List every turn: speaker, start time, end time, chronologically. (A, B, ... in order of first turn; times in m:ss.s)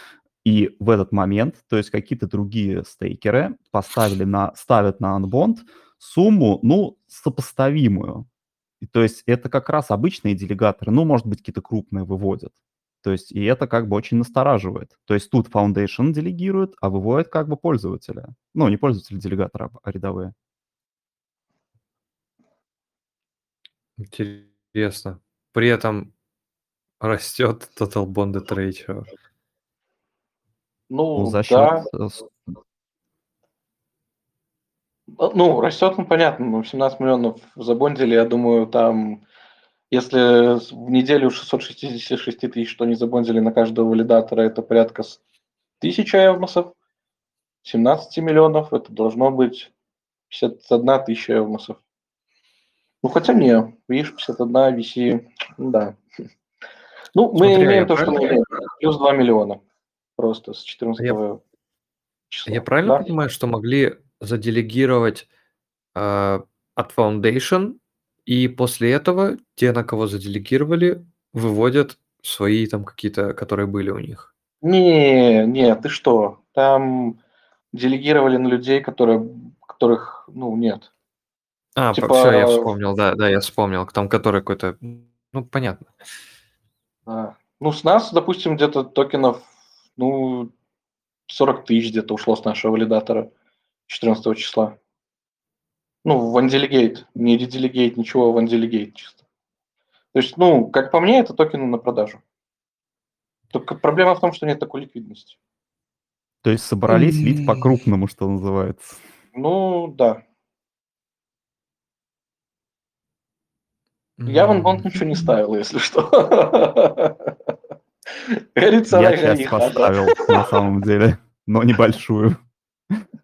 0:00.4-0:08.3 A
0:08.8-0:20.3 A
0:24.0-0:26.1 B
0:27.0-0:29.1 B
0:30.9-0:31.9 C
0:31.2-0:32.3 A
0:35.2-0:39.2 C
0:39.9-0:45.2 C
0:45.8-0:46.7 C
0:47.6-0:49.7 C
0:50.3-0:51.8 C
0:53.0-0:56.0 C
0:57.1-0:59.6 C
0:57.4-0:58.3 B
1:00.2-1:01.4 C
1:02.3-1:03.1 C
1:02.5-1:05.3 B
1:06.0-1:14.3 B
1:14.6-1:17.2 C
1:17.7-1:20.9 C
1:21.8-1:25.9 B
1:22.0-1:22.7 C
1:27.1-1:30.5 C
1:31.3-1:33.3 C
1:33.9-1:34.8 C
1:36.0-1:39.2 C
1:40.1-1:42.2 C
1:43.5-1:45.4 C
1:46.4-1:49.0 A
1:46.9-1:47.7 B
1:49.4-1:50.2 C
1:54.2-1:55.0 B
1:54.3-1:57.5 C
1:58.2-2:00.6 C
1:58.9-2:02.4 A